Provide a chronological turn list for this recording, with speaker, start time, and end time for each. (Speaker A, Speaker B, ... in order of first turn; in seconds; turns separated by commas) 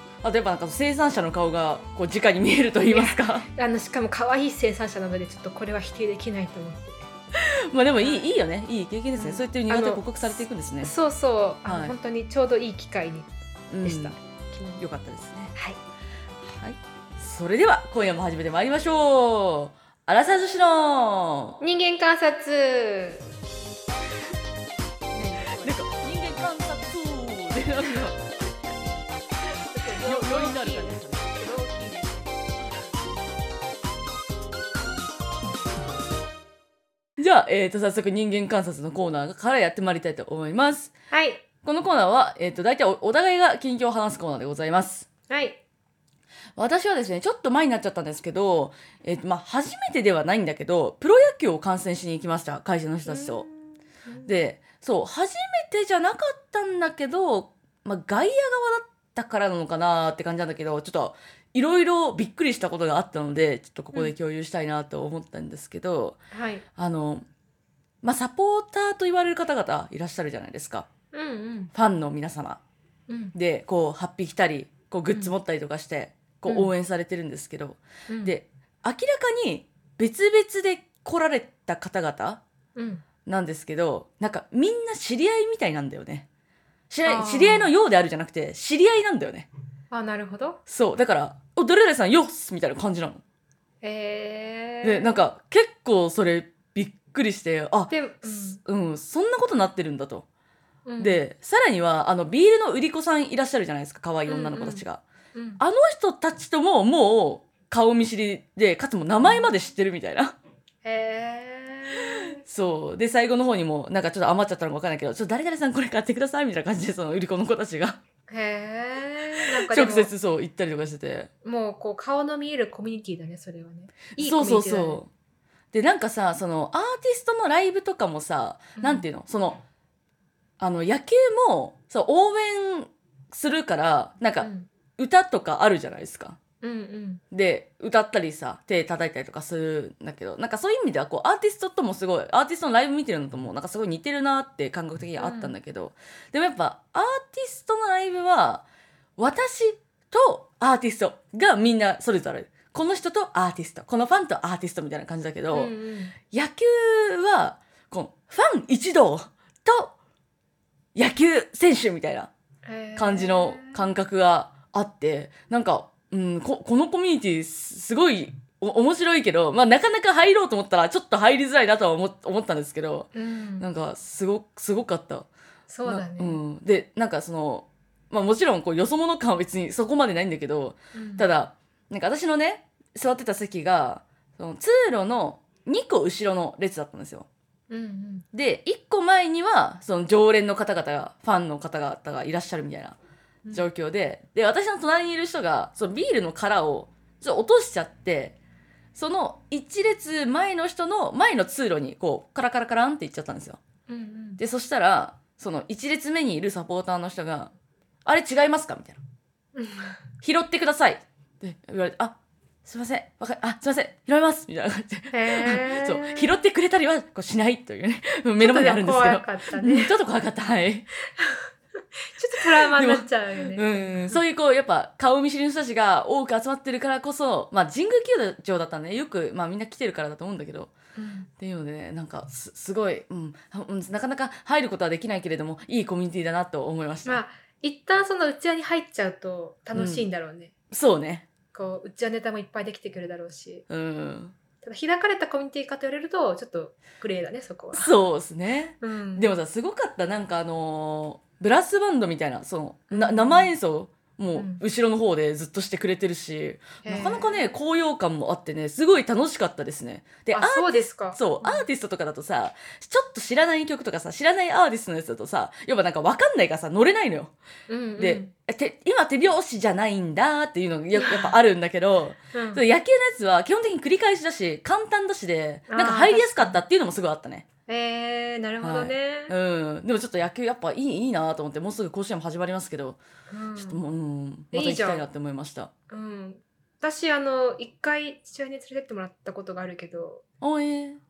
Speaker A: 0.2-3.5, Speaker B: 2.9-7.1, Speaker A: 7.3-10.9, Speaker B: 8.0-8.2, Speaker B: 9.1-13.3, Speaker A: 11.7-11.9, Speaker A: 13.7-14.2, Speaker B: 13.8-14.8, Speaker A: 14.8-15.5, Speaker A: 16.5-21.6, Speaker B: 21.6-23.3, Speaker A: 25.1-28.2, Speaker B: 25.3-25.8, Speaker B: 29.7-32.4, Speaker A: 30.0-31.3, Speaker A: 37.2-40.9, Speaker B: 41.1-41.4, Speaker A: 41.6-45.0, Speaker B: 45.3-45.6, Speaker A: 46.5-53.5, Speaker B: 53.0-54.3, Speaker A: 54.2-66.2, Speaker B: 66.3-66.6, Speaker A: 66.8-67.2, Speaker A: 68.0-70.9, Speaker B: 71.1-71.7, Speaker A: 71.7-72.6, Speaker B: 73.1-73.3, Speaker A: 73.3-82.4, Speaker B: 78.1-78.3, Speaker B: 82.8-83.0, Speaker A: 83.2-86.3, Speaker A: 86.9-89.5, Speaker B: 87.0-87.7, Speaker B: 89.9-90.6, Speaker A: 90.7-93.2, Speaker B: 93.8-95.2, Speaker A: 94.8-100.2, Speaker B: 97.9-98.6, Speaker B: 100.8-101.2, Speaker A: 101.0-105.0, Speaker B: 104.3-105.6, Speaker A: 105.6-110.3, Speaker B: 110.8-112.4, Speaker A: 112.4-118.0, Speaker B: 118.3-120.1, Speaker A: 119.7-121.3, Speaker B: 121.4-125.0, Speaker A: 124.2-125.1, Speaker A: 125.7-129.6, Speaker B: 128.8-129.1, Speaker A: 130.6-136.4, Speaker B: 134.4-134.7, Speaker B: 136.6-137.2, Speaker A: 137.3-148.6, Speaker B: 145.2-145.5, Speaker A: 149.2-155.7, Speaker B: 155.5-156.2, Speaker A: 156.3-159.9, Speaker A: 160.9-162.3, Speaker B: 162.6-163.8, Speaker A: 162.9-175.3, Speaker B: 173.1-173.7, Speaker B: 175.7-176.4, Speaker A: 175.8-187.3, Speaker B: 180.9-181.2, Speaker B: 187.7-188.2, Speaker A: 188.3-193.0, Speaker A: 193.5-198.3, Speaker A: 198.9-203.6, Speaker B: 203.9-204.4, Speaker A: 204.4-207.5, Speaker A: 208.0-209.0, Speaker B: 209.5-210.0, Speaker A: 210.2-220.9, Speaker B: 215.1-216.4, Speaker B: 218.4-219.9, Speaker B: 221.2-221.5, Speaker B: 222.1-224.2, Speaker A: 222.7-230.7, Speaker B: 230.9-231.3, Speaker A: 231.4-237.2, Speaker B: 237.0-240.5, Speaker A: 239.7-240.0, Speaker A: 240.7-241.3, Speaker B: 241.5-243.6, Speaker A: 243.7-244.3, Speaker B: 244.6-247.9, Speaker A: 247.7-267.3, Speaker B: 248.8-249.3, Speaker B: 252.9-253.5, Speaker B: 254.3-254.6, Speaker B: 256.8-257.5, Speaker B: 260.3-261.6, Speaker B: 267.7-268.3, Speaker A: 268.0-277.4, Speaker B: 270.9-271.3, Speaker B: 272.3-272.6, Speaker B: 275.7-276.6, Speaker B: 277.7-279.3, Speaker A: 278.6-283.0, Speaker B: 283.3-283.8, Speaker A: 283.6-285.7, Speaker B: 284.5-285.1, Speaker B: 285.9-290.2, Speaker A: 290.4-291.0